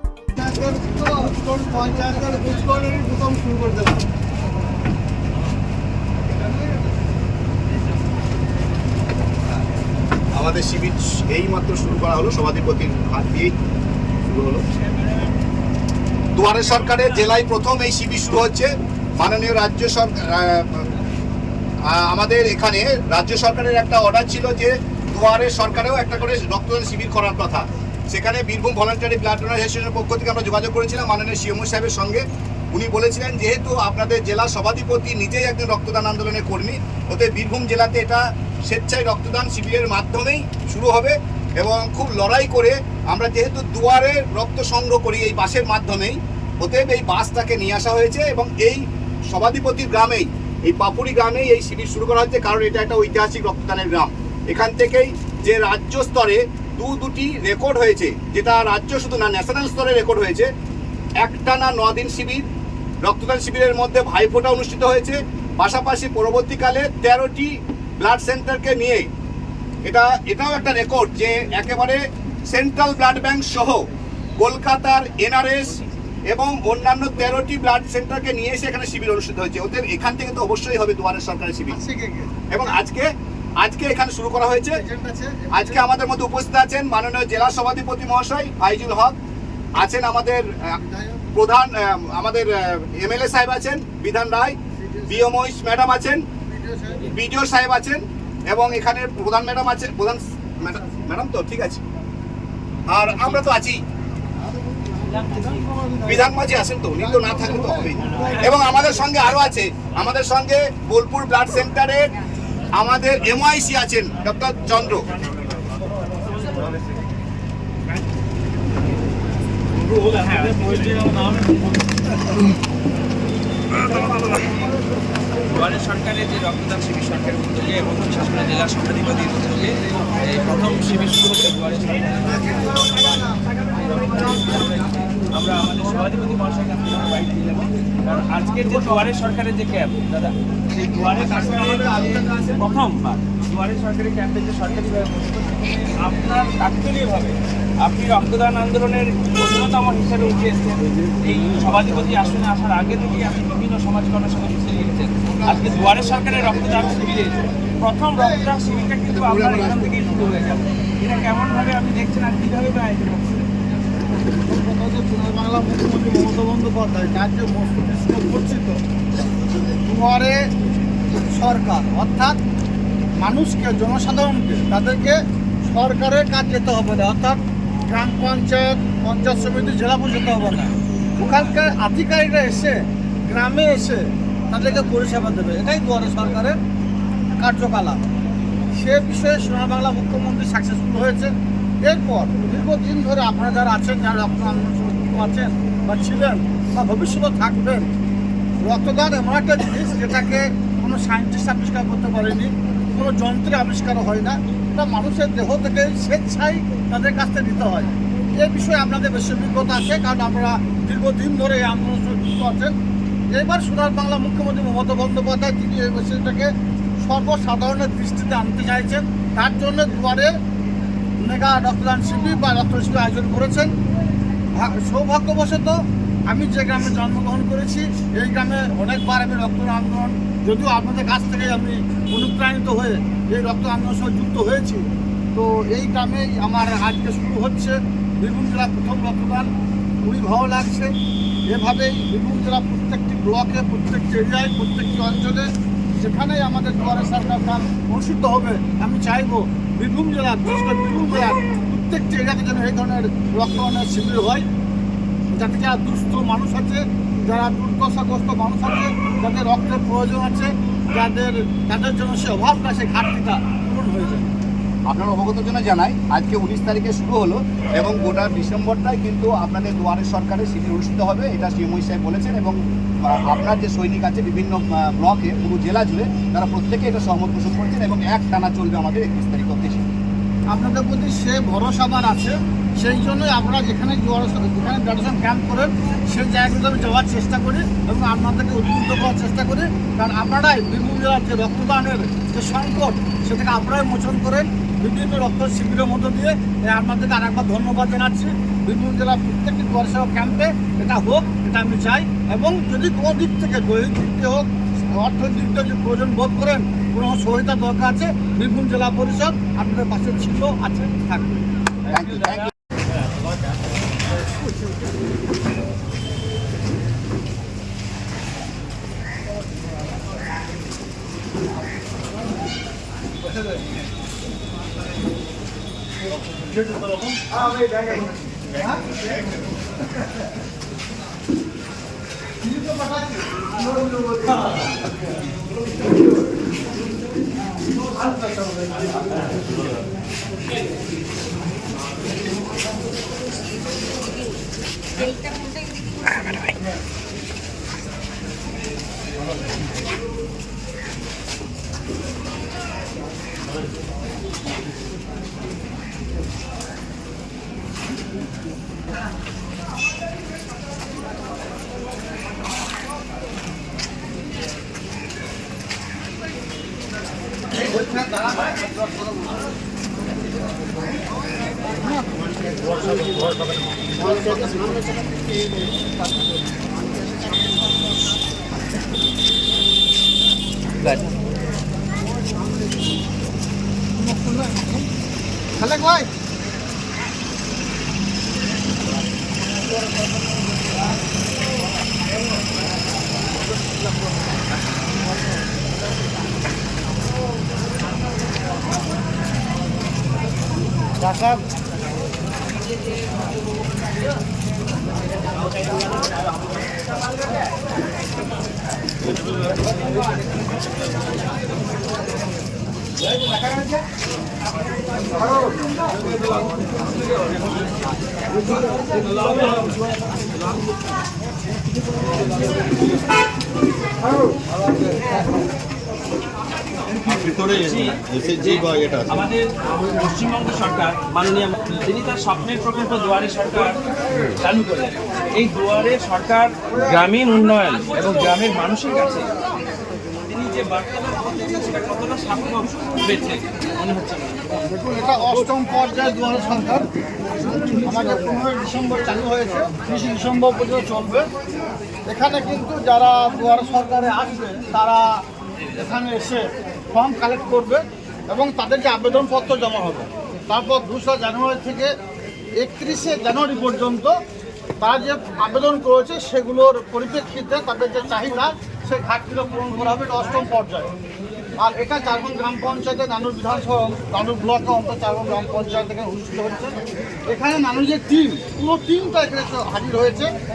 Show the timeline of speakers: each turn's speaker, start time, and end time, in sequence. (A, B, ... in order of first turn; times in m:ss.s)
0:00.3-0:03.9 A
0:06.4-0:06.8 A
0:10.4-0:13.5 B
0:14.2-0:14.6 B
0:16.4-0:20.8 B
0:21.9-1:00.5 B
1:01.2-1:02.4 B
1:03.0-1:09.1 B
1:09.8-1:13.8 B
1:14.4-1:21.8 B
1:21.7-1:22.3 A
1:22.5-1:24.8 B
1:24.7-1:25.8 A
1:25.5-1:29.2 B
1:29.8-1:30.8 B
1:30.8-1:31.2 A
1:31.3-1:34.6 B
1:34.8-1:35.3 A
1:35.1-1:36.2 B
1:36.4-1:37.1 A
1:37.1-1:41.8 B
1:42.9-1:43.8 B
1:46.0-1:52.1 B
1:52.8-1:55.0 B
2:00.0-2:01.4 C
2:05.5-2:43.5 C
2:18.6-2:18.9 A
2:20.9-2:22.8 A
2:35.3-2:36.4 B
2:44.3-2:48.8 A
2:49.8-2:50.4 A
2:51.1-2:52.4 A
2:53.2-3:06.6 A
3:07.4-3:08.0 A
3:08.7-3:17.9 A
3:18.6-3:32.7 A
3:33.3-3:40.3 A
3:41.2-3:43.7 A
3:44.5-3:59.5 A
4:00.0-4:00.9 A
4:01.5-4:14.4 A
4:15.3-4:24.3 A
4:24.9-4:39.8 B
4:40.5-5:11.4 A
5:11.9-5:12.5 B
5:12.1-5:12.4 C
5:23.2-5:23.6 A
5:26.2-5:29.0 A
5:32.4-5:34.7 A
5:37.9-5:39.1 A
6:07.5-6:09.3 A
6:11.8-6:13.4 A
6:13.9-6:14.9 A
6:23.9-6:24.9 A
6:25.6-6:26.1 A
6:41.0-6:41.4 A
6:45.6-6:46.1 C
6:53.0-6:53.8 C
6:55.3-6:55.8 A
6:56.3-6:57.7 C
6:58.5-7:00.1 C
7:07.1-7:19.3 C
7:07.1-7:07.4 B
7:20.3-7:24.5 C
7:24.7-7:26.9 A
7:27.7-7:31.3 A
7:32.1-7:35.2 A
7:35.7-7:41.9 A
7:42.6-7:44.1 A
7:44.8-7:50.9 A
7:51.6-8:00.3 A